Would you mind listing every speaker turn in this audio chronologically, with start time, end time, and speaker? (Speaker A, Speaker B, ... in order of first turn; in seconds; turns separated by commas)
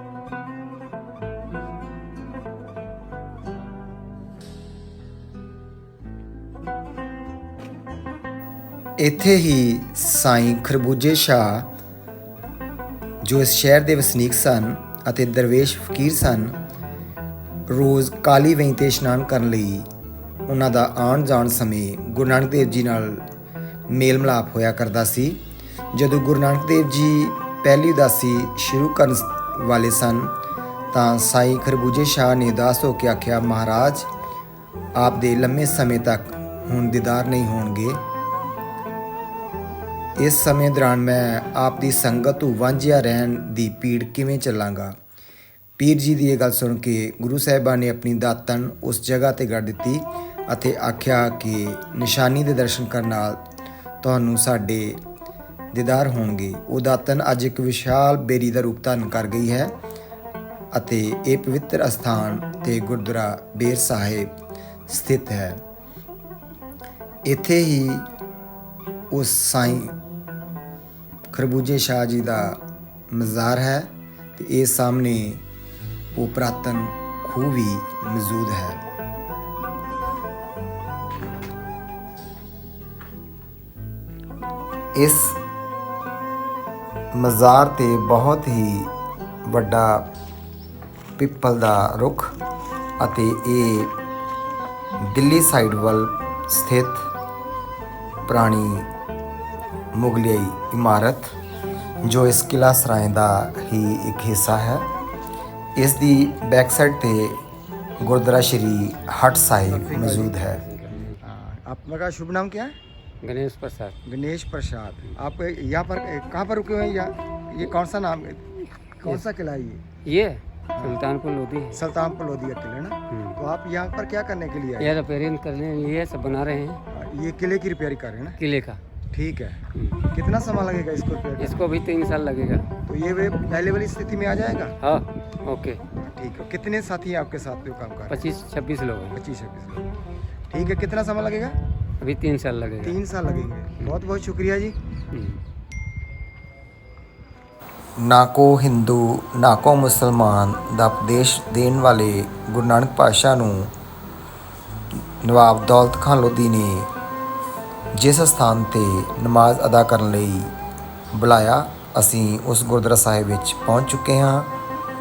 Speaker A: 9.0-11.7, Speaker A: 13.2-16.6, Speaker A: 17.7-19.9, Speaker A: 20.5-23.2, Speaker A: 23.9-25.4, Speaker A: 25.9-30.3, Speaker A: 30.9-34.1, Speaker A: 35.0-38.0, Speaker A: 40.2-45.0, Speaker A: 45.8-53.4, Speaker A: 54.0-55.0, Speaker A: 55.7-59.7, Speaker A: 60.7-64.3, Speaker A: 64.9-65.6, Speaker A: 67.2-68.1, Speaker A: 69.1-70.0, Speaker A: 71.3-75.4, Speaker A: 76.1-78.8, Speaker A: 84.9-85.4, Speaker A: 87.1-88.9, Speaker A: 89.4-90.1, Speaker A: 91.2-92.3, Speaker A: 93.0-93.9, Speaker A: 95.0-97.1, Speaker A: 98.3-98.9, Speaker A: 99.9-101.3, Speaker A: 102.0-104.8, Speaker A: 105.8-107.4, Speaker A: 108.0-110.7, Speaker B: 109.9-111.2, Speaker A: 111.2-112.8, Speaker B: 113.2-114.0, Speaker A: 114.0-119.8, Speaker B: 120.0-121.8, Speaker A: 121.7-125.0, Speaker B: 123.1-123.4, Speaker B: 124.8-126.8, Speaker A: 126.9-128.4, Speaker B: 128.4-128.8, Speaker A: 129.1-131.6, Speaker B: 129.7-130.1, Speaker B: 131.4-132.7, Speaker A: 132.8-134.8, Speaker B: 134.8-135.8, Speaker A: 135.9-138.3, Speaker B: 138.1-139.2, Speaker A: 139.1-139.9, Speaker A: 140.5-141.6, Speaker B: 142.0-143.0, Speaker A: 142.8-144.8, Speaker B: 145.1-145.4, Speaker A: 148.0-153.7, Speaker A: 155.2-156.9, Speaker A: 157.9-160.5, Speaker A: 161.1-164.5